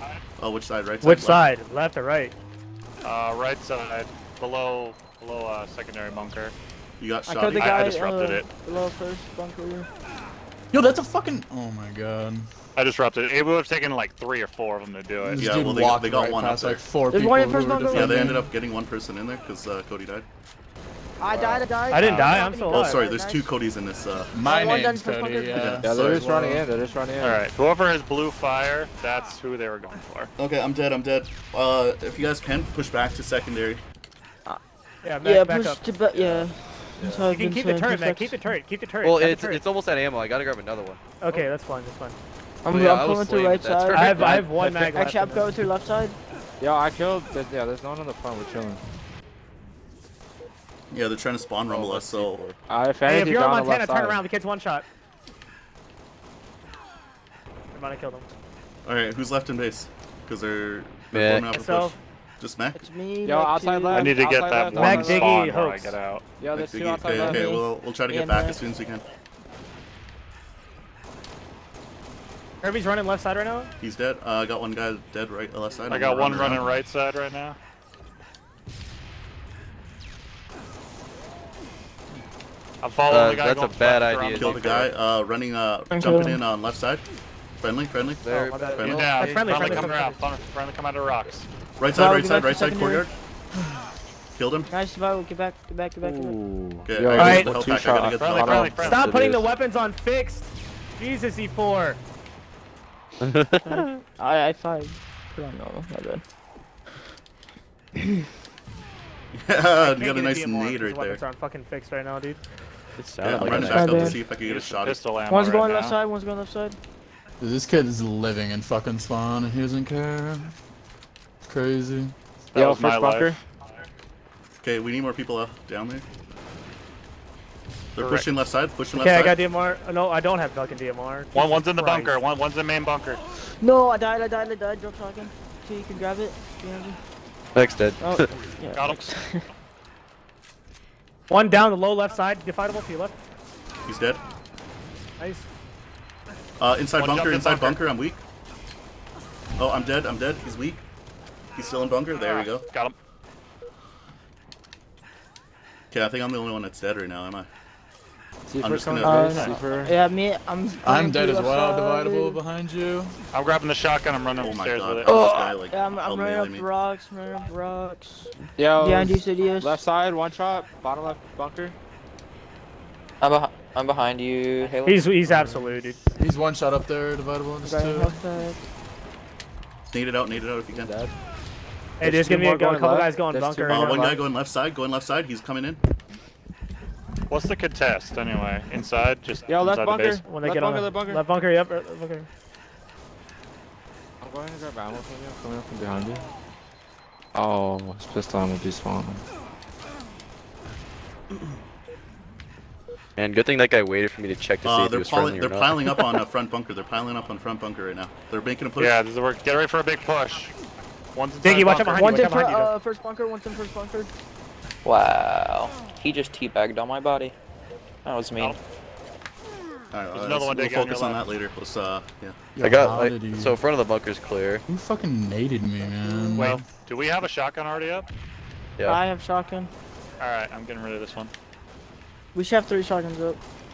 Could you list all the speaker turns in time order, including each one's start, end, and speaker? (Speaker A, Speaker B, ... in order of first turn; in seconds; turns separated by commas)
Speaker A: 0.4-1.5, Speaker B: 1.0-2.3, Speaker C: 3.0-6.5, Speaker A: 7.0-7.9, Speaker D: 7.3-9.9, Speaker C: 7.5-8.5, Speaker E: 10.7-12.5, Speaker C: 12.8-15.4, Speaker E: 15.2-18.5, Speaker A: 15.4-16.8, Speaker D: 17.1-18.4, Speaker A: 17.9-20.3, Speaker D: 21.2-23.5, Speaker F: 21.3-21.6, Speaker B: 21.9-23.0, Speaker A: 22.7-24.4, Speaker E: 24.3-26.7, Speaker D: 24.4-25.8, Speaker A: 25.5-26.1, Speaker G: 25.8-27.4, Speaker C: 27.2-30.3, Speaker A: 30.4-33.8, Speaker B: 35.0-35.8, Speaker D: 35.2-38.4, Speaker F: 36.1-36.5, Speaker G: 37.0-37.3, Speaker B: 37.3-39.6, Speaker F: 39.0-41.0, Speaker B: 41.2-42.2, Speaker D: 42.6-46.2, Speaker F: 42.7-44.4, Speaker B: 43.9-45.5, Speaker G: 46.6-48.8, Speaker A: 50.9-52.5, Speaker F: 51.7-52.6, Speaker G: 52.7-54.2, Speaker B: 53.1-54.9, Speaker B: 57.7-58.3, Speaker A: 58.8-62.8, Speaker F: 61.1-61.5, Speaker B: 61.5-62.0, Speaker D: 62.8-64.2, Speaker G: 63.2-65.4, Speaker C: 63.9-66.2, Speaker B: 64.8-66.0, Speaker G: 66.4-67.6, Speaker A: 66.5-69.0, Speaker D: 67.2-67.4, Speaker D: 68.1-68.6, Speaker B: 72.6-73.7, Speaker A: 73.8-76.8, Speaker C: 75.9-77.6, Speaker C: 82.8-84.9, Speaker F: 83.1-84.9, Speaker A: 84.3-87.0, Speaker D: 85.9-86.4, Speaker A: 87.6-89.2, Speaker F: 88.2-90.0, Speaker B: 88.3-90.2, Speaker C: 88.8-91.5, Speaker A: 91.8-93.1, Speaker D: 91.9-93.1, Speaker A: 94.3-94.7, Speaker D: 94.7-96.4, Speaker G: 96.0-98.9, Speaker A: 96.8-99.0, Speaker B: 97.2-97.5, Speaker C: 98.1-99.1, Speaker B: 98.8-102.0, Speaker F: 98.9-99.5, Speaker F: 103.2-104.0, Speaker D: 103.7-106.2, Speaker A: 109.3-111.2, Speaker B: 109.8-112.4, Speaker F: 113.0-114.2, Speaker A: 113.2-115.1, Speaker D: 113.4-114.2, Speaker C: 114.1-116.0, Speaker D: 115.3-116.8, Speaker E: 117.4-120.5, Speaker E: 121.5-122.1, Speaker C: 122.5-123.3, Speaker G: 122.5-123.4, Speaker A: 124.6-126.0, Speaker A: 128.0-129.4, Speaker C: 128.0-128.3, Speaker B: 128.9-132.2, Speaker C: 131.3-133.2, Speaker D: 133.6-137.0, Speaker F: 137.5-138.4, Speaker D: 138.0-139.4, Speaker C: 138.7-139.4, Speaker B: 141.3-143.2, Speaker A: 143.9-144.2, Speaker B: 145.2-145.5, Speaker A: 146.6-148.2, Speaker C: 147.0-147.8, Speaker A: 149.6-150.8, Speaker A: 151.6-152.7, Speaker C: 152.1-152.9, Speaker A: 155.9-157.5, Speaker G: 158.5-159.9, Speaker A: 158.6-159.6, Speaker D: 159.0-162.4, Speaker E: 160.8-163.2, Speaker C: 163.3-165.1, Speaker A: 164.4-166.7, Speaker D: 165.1-169.8, Speaker F: 165.1-165.5, Speaker G: 168.6-171.8, Speaker H: 173.2-175.1, Speaker B: 174.9-176.0, Speaker G: 175.3-175.7, Speaker E: 176.2-178.1, Speaker D: 177.6-178.6, Speaker A: 179.9-180.9, Speaker G: 180.7-181.1, Speaker B: 182.0-184.2, Speaker G: 182.0-184.2, Speaker A: 183.7-185.8, Speaker C: 187.3-190.2, Speaker G: 189.5-191.2, Speaker B: 190.3-192.3, Speaker G: 194.2-196.3, Speaker G: 197.3-199.3, Speaker F: 203.2-206.1, Speaker A: 204.6-209.0, Speaker C: 208.8-210.5, Speaker C: 211.2-212.4, Speaker B: 211.4-212.7, Speaker D: 211.9-214.1, Speaker H: 214.8-217.3, Speaker H: 218.1-218.6, Speaker A: 219.9-222.4, Speaker C: 220.1-221.2, Speaker E: 222.6-223.6, Speaker F: 222.6-224.7, Speaker E: 224.7-226.7, Speaker D: 226.0-226.5, Speaker C: 226.4-228.1, Speaker D: 228.8-229.7, Speaker C: 230.2-231.3, Speaker D: 232.3-233.4